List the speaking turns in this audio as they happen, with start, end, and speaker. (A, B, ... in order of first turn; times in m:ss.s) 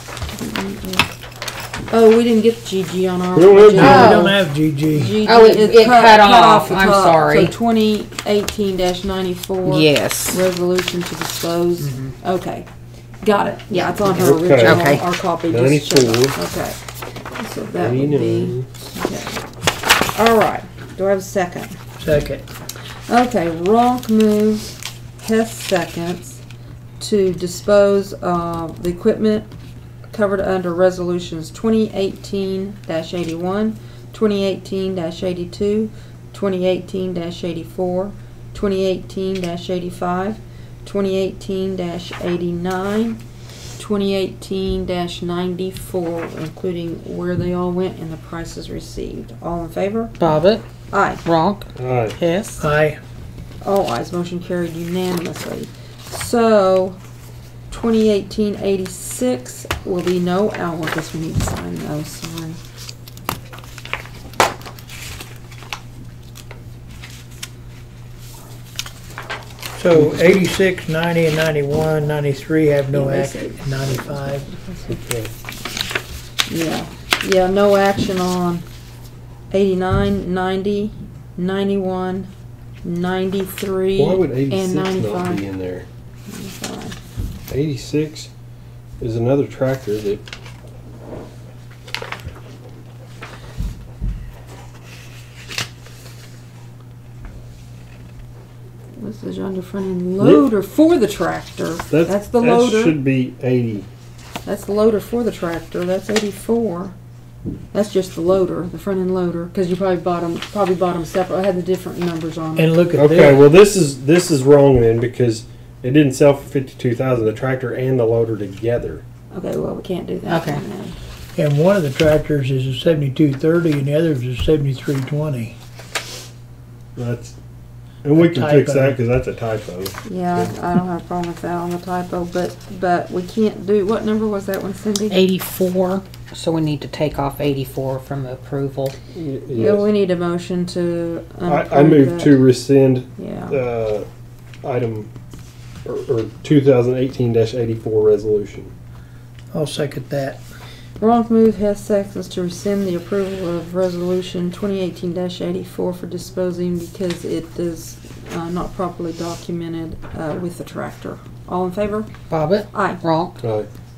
0:00.4-0:01.1 A
0:01.9-0:04.3 A
0:03.3-0:04.3 B
0:03.7-0:05.2 C
0:03.8-0:04.4 D
0:04.9-0:12.7 A
0:05.2-0:07.5 D
0:09.6-0:10.4 D
0:11.8-0:12.1 D
0:13.2-0:16.8 A
0:14.2-0:14.9 B
0:14.2-0:15.0 D
0:15.5-0:16.4 B
0:17.3-0:19.4 A
0:17.8-0:18.7 B
0:20.1-0:21.7 A
0:22.0-0:22.4 C
0:23.1-0:26.4 A
0:27.0-0:29.5 A
0:30.1-0:43.2 A
0:43.8-0:50.3 A
0:50.2-0:50.6 D
0:50.9-0:51.2 A
0:51.2-0:52.6 D
0:51.8-0:52.2 B
0:52.6-0:53.0 C
0:53.6-0:57.0 A
0:57.7-1:02.6 A
1:09.8-1:14.5 C
1:12.9-1:14.9 A
1:14.9-1:15.3 B
1:16.5-1:18.6 A
1:19.5-1:22.3 A
1:22.8-1:25.4 A
1:24.0-1:25.9 B
1:26.3-1:27.0 A
1:27.5-1:28.3 B
1:29.0-1:30.2 B
1:39.0-1:43.0 A
1:40.2-1:40.4 B
1:41.9-1:43.9 B
1:44.4-1:46.9 A
1:47.7-1:52.7 A
1:52.6-1:53.5 C
1:53.0-1:59.0 B
1:59.3-2:01.0 A
2:00.3-2:00.6 D
2:01.4-2:05.6 C
2:07.0-2:07.3 B
2:08.0-2:10.5 B
2:08.2-2:09.0 C
2:10.0-2:15.2 A
2:15.1-2:19.0 D
2:19.1-2:19.9 B
2:19.5-2:22.4 A
2:21.4-2:24.0 B
2:23.2-2:23.6 A
2:24.6-2:25.1 B
2:25.8-2:28.7 B
2:29.5-2:30.4 C
2:31.0-2:42.1 A
2:42.3-2:43.4 D
2:42.7-2:43.0 A
2:43.4-2:43.7 B